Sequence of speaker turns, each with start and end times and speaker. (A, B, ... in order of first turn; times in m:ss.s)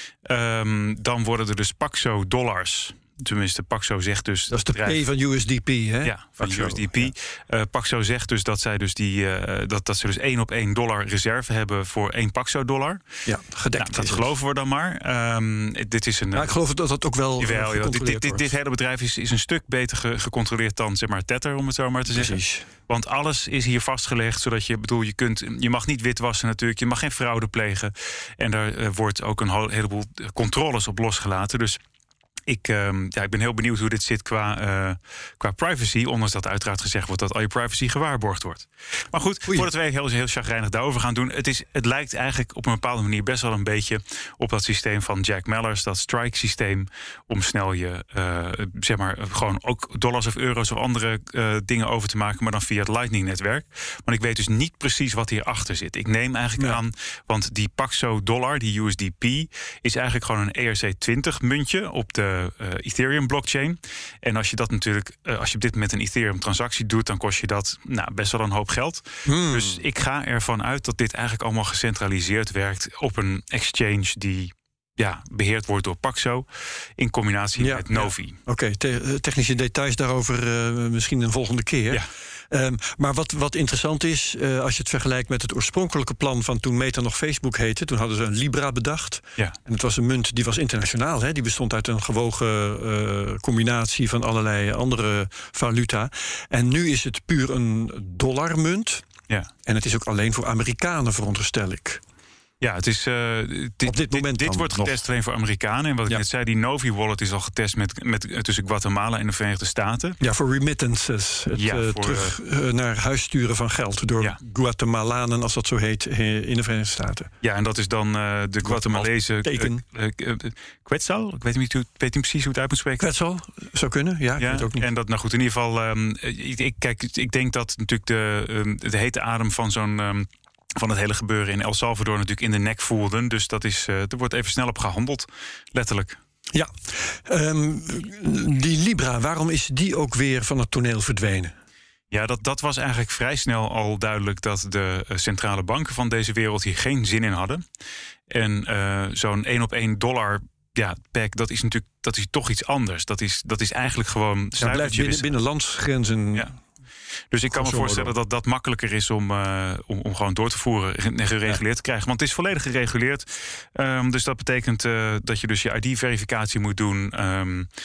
0:00.3-0:05.0 A
0:04.5-0:07.1 B
0:06.0-0:13.0 A
0:13.2-0:14.3 B
0:13.8-0:16.5 A
0:16.3-0:18.5 B
0:17.4-0:31.8 A
0:22.1-0:22.6 B
0:32.5-1:16.5 A
1:09.2-1:09.8 B
1:17.0-1:18.4 A
1:17.6-1:39.0 B
1:39.6-1:42.0 B
1:42.6-1:50.2 A
1:43.8-1:45.0 B
1:50.2-1:57.3 B
1:51.6-1:52.3 A
1:57.4-2:03.1 A
1:58.6-1:59.8 B
2:03.0-2:04.8 B
2:04.4-2:16.2 A
2:16.5-2:21.5 B
2:22.1-2:27.6 A
2:28.3-2:35.3 A
2:34.6-2:36.5 B
2:37.3-2:47.7 A
2:37.5-2:38.1 B